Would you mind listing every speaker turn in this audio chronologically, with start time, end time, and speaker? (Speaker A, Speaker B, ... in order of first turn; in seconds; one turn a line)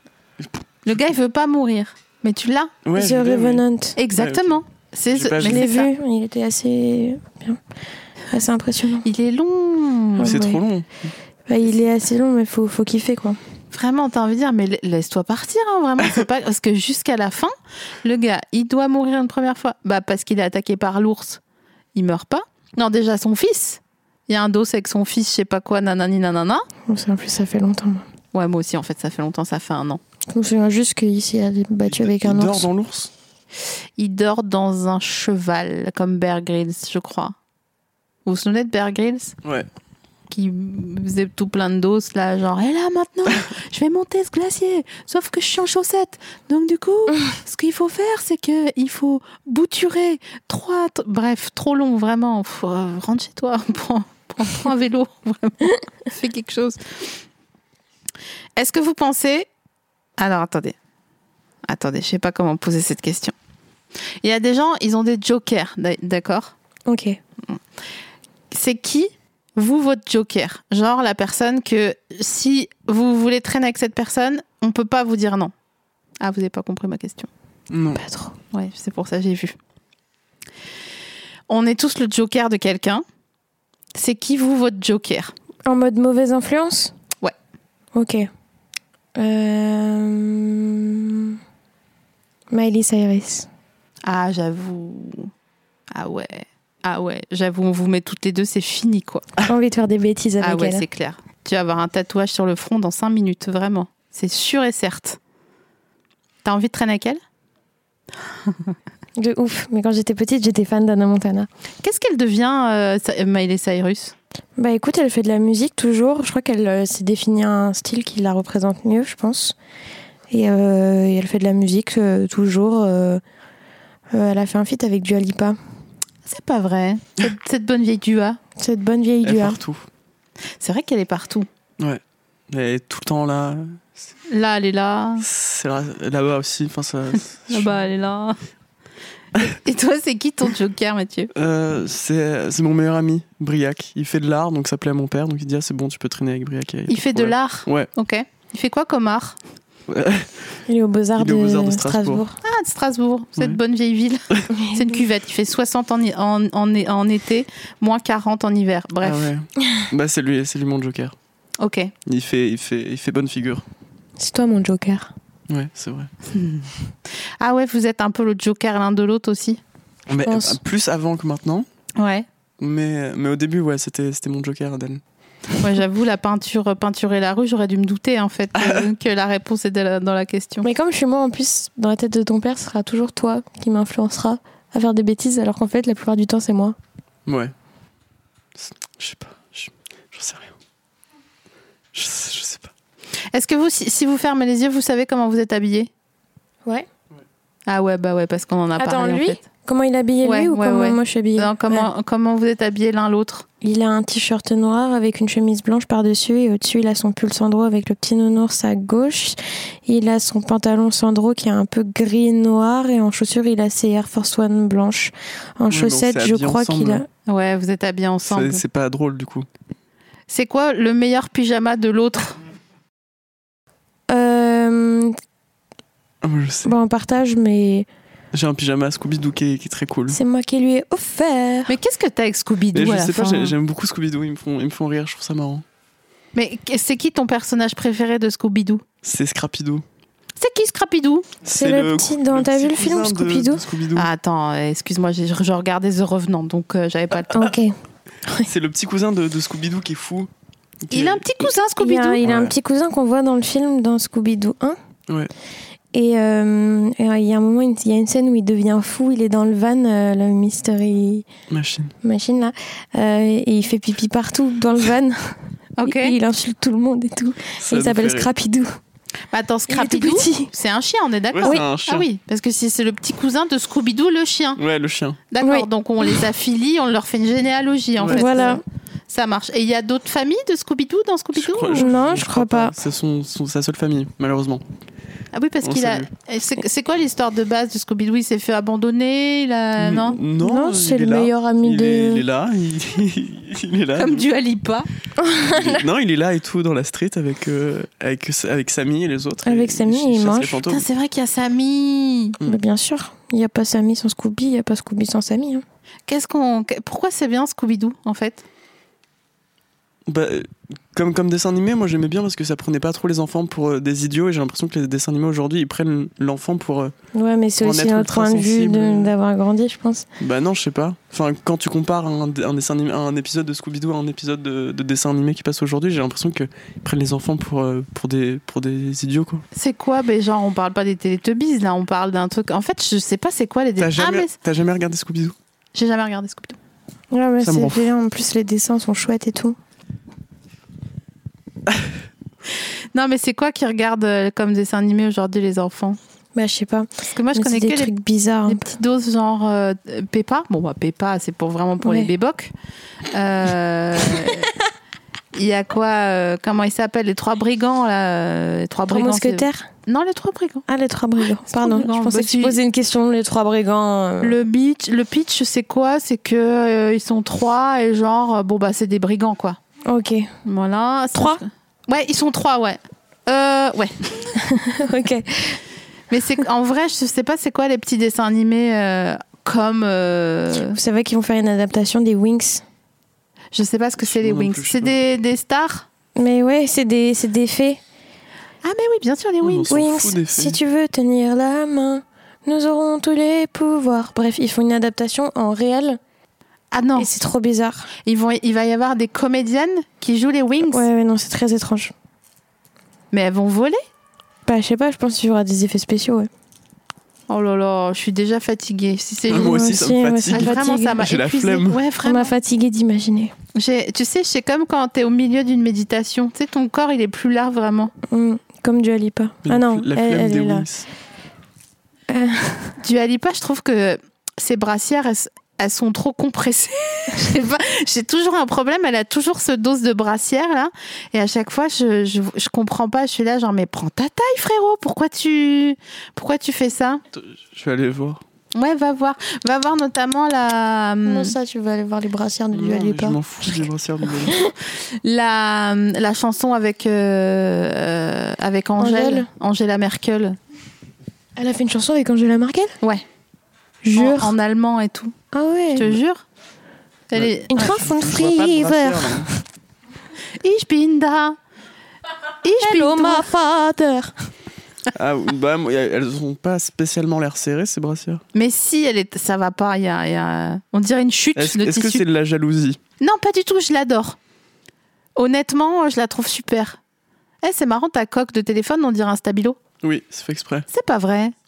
Speaker A: 0.4-1.0
Speaker B: 0.9-2.7
Speaker A: 2.9-3.6
Speaker C: 3.0-4.0
Speaker B: 4.0-5.9
Speaker A: 4.2-4.6
Speaker A: 5.1-5.7
Speaker C: 5.4-7.6
Speaker C: 8.3-9.1
Speaker B: 9.0-10.4
Speaker C: 10.2-10.6
Speaker A: 10.2-11.1
Speaker C: 11.5-13.4
Speaker B: 13.7-21.4
Speaker B: 21.9-26.7
Speaker C: 26.9-28.1
Speaker B: 28.3-30.0
Speaker C: 30.3-32.7
Speaker A: 31.9-33.1
Speaker B: 34.0-37.4
Speaker B: 38.3-39.4
Speaker B: 40.3-56.8
Speaker B: 58.6-59.5
Speaker B: 60.2-60.8
Speaker B: 61.7-63.3
Speaker B: 64.2-66.5
Speaker C: 66.9-67.2
Speaker B: 68.5-75.5
Speaker B: 76.2-77.3
Speaker A: 77.7-78.0
Speaker C: 78.0-78.3
Speaker B: 78.5-79.6
Speaker B: 81.5-83.0
Speaker B: 83.9-85.3
Speaker C: 85.7-86.9
Speaker C: 87.9-88.3
Speaker C: 89.2-91.4
Speaker C: 92.5-93.5
Speaker B: 94.0-95.3
Speaker B: 95.9-99.3
Speaker C: 99.4-100.8
Speaker B: 100.4-105.2
Speaker B: 106.4-107.2
Speaker C: 109.2-111.5
Speaker B: 111.8-114.2
Speaker C: 114.6-119.6
Speaker C: 120.3-123.2
Speaker C: 124.1-125.6
Speaker B: 126.3-128.4
Speaker C: 128.6-129.6
Speaker A: 129.2-129.8
Speaker B: 130.6-131.5
Speaker A: 131.8-134.0
Speaker B: 134.3-135.2
Speaker A: 135.2-137.8
Speaker B: 137.5-138.4
Speaker B: 139.4-141.3
Speaker A: 141.3-147.9
Speaker B: 146.9-149.4
Speaker A: 149.9-150.6
Speaker C: 150.7-152.4
Speaker A: 151.2-152.2
Speaker B: 152.4-159.3
Speaker C: 154.5-154.9
Speaker A: 159.0-161.2
Speaker B: 161.6-161.9
Speaker A: 162.1-163.6
Speaker C: 164.2-165.1
Speaker A: 165.5-166.1
Speaker B: 166.3-166.7
Speaker B: 167.4-169.6
Speaker A: 170.1-171.7
Speaker C: 170.3-170.6
Speaker B: 172.0-172.3
Speaker A: 172.6-175.0
Speaker B: 175.6-180.7
Speaker A: 178.6-178.9
Speaker C: 180.6-186.8
Speaker A: 187.3-187.5
Speaker A: 188.6-190.5
Speaker A: 191.9-192.7
Speaker B: 193.3-195.9
Speaker B: 197.7-199.4
Speaker C: 198.8-201.9
Speaker B: 200.2-203.5
Speaker C: 203.6-217.1
Speaker A: 215.7-217.0
Speaker B: 217.3-218.6
Speaker A: 218.2-219.5
Speaker B: 220.3-222.4
Speaker C: 224.1-225.2
Speaker A: 226.2-226.7
Speaker C: 226.7-227.9
Speaker A: 228.3-230.2
Speaker C: 230.1-231.7
Speaker B: 231.7-233.6
Speaker A: 232.7-235.6
Speaker B: 236.3-238.8
Speaker A: 239.0-239.8
Speaker B: 240.4-241.3
Speaker A: 241.4-244.1
Speaker C: 241.5-243.6
Speaker B: 243.9-247.5
Speaker C: 247.3-247.8
Speaker A: 248.4-250.3
Speaker A: 250.8-251.5
Speaker B: 250.9-252.2
Speaker C: 251.8-254.8
Speaker A: 252.2-252.5
Speaker C: 255.9-261.3
Speaker A: 261.5-261.9
Speaker C: 262.0-268.7
Speaker B: 265.8-266.2
Speaker A: 267.6-268.3
Speaker B: 269.3-274.6
Speaker C: 269.7-270.5
Speaker A: 271.3-272.1
Speaker A: 274.6-275.2
Speaker B: 275.3-281.9
Speaker C: 275.4-276.1
Speaker A: 278.0-278.5
Speaker C: 278.1-278.6
Speaker A: 281.4-284.6
Speaker C: 281.8-282.7
Speaker B: 285.3-290.2
Speaker A: 285.6-286.1
Speaker A: 289.8-294.2
Speaker C: 290.4-292.2
Speaker B: 294.0-294.9
Speaker C: 295.2-295.9
Speaker A: 295.5-300.8
Speaker C: 299.4-300.6
Speaker B: 300.7-302.4
Speaker C: 302.4-305.6
Speaker B: 306.1-308.4
Speaker A: 310.1-316.9
Speaker C: 317.1-320.1
Speaker A: 317.6-319.1
Speaker A: 320.2-329.4
Speaker B: 329.5-334.3
Speaker A: 333.8-335.4
Speaker B: 335.8-336.6
Speaker C: 337.1-339.6
Speaker A: 337.4-337.9
Speaker B: 342.9-346.0
Speaker C: 346.4-348.7
Speaker B: 347.1-347.9
Speaker B: 348.5-352.5
Speaker C: 351.8-352.1
Speaker B: 353.1-354.5
Speaker B: 355.3-360.6
Speaker C: 358.9-359.7
Speaker C: 360.7-364.4
Speaker B: 361.5-362.6
Speaker B: 364.2-369.6
Speaker C: 369.9-370.3
Speaker B: 370.4-374.3
Speaker C: 371.1-371.4
Speaker C: 374.4-375.6
Speaker B: 376.1-380.8
Speaker C: 380.6-382.6
Speaker B: 383.5-385.9
Speaker A: 384.0-385.0
Speaker C: 386.2-387.8
Speaker B: 388.6-389.8
Speaker A: 389.4-390.6
Speaker C: 389.7-396.0
Speaker B: 396.7-397.1
Speaker C: 397.0-397.9
Speaker B: 398.1-400.9
Speaker C: 400.7-401.9
Speaker B: 403.1-403.8
Speaker C: 404.5-406.3
Speaker B: 407.3-409.7
Speaker A: 409.3-411.8
Speaker C: 409.3-411.1
Speaker B: 410.3-412.3
Speaker C: 412.0-413.3
Speaker B: 413.6-417.9
Speaker C: 418.1-420.7
Speaker A: 419.5-420.9
Speaker C: 422.1-422.8
Speaker B: 422.8-437.0
Speaker A: 437.1-438.2
Speaker B: 438.6-441.3
Speaker C: 441.1-443.2
Speaker A: 442.5-444.5
Speaker C: 444.2-444.5
Speaker B: 445.0-450.4
Speaker C: 448.8-449.3
Speaker C: 451.4-452.8
Speaker C: 453.8-454.3
Speaker B: 453.9-455.1
Speaker C: 455.3-455.9
Speaker B: 455.8-456.2
Speaker B: 457.1-457.8
Speaker A: 457.1-459.3
Speaker C: 457.5-459.4
Speaker B: 460.4-461.4
Speaker C: 462.4-464.3
Speaker B: 462.5-463.3
Speaker A: 464.9-468.2
Speaker B: 468.3-472.1
Speaker A: 471.4-472.8
Speaker B: 473.0-474.2
Speaker B: 475.2-476.8
Speaker B: 477.4-479.6
Speaker A: 479.8-480.7
Speaker B: 480.7-481.3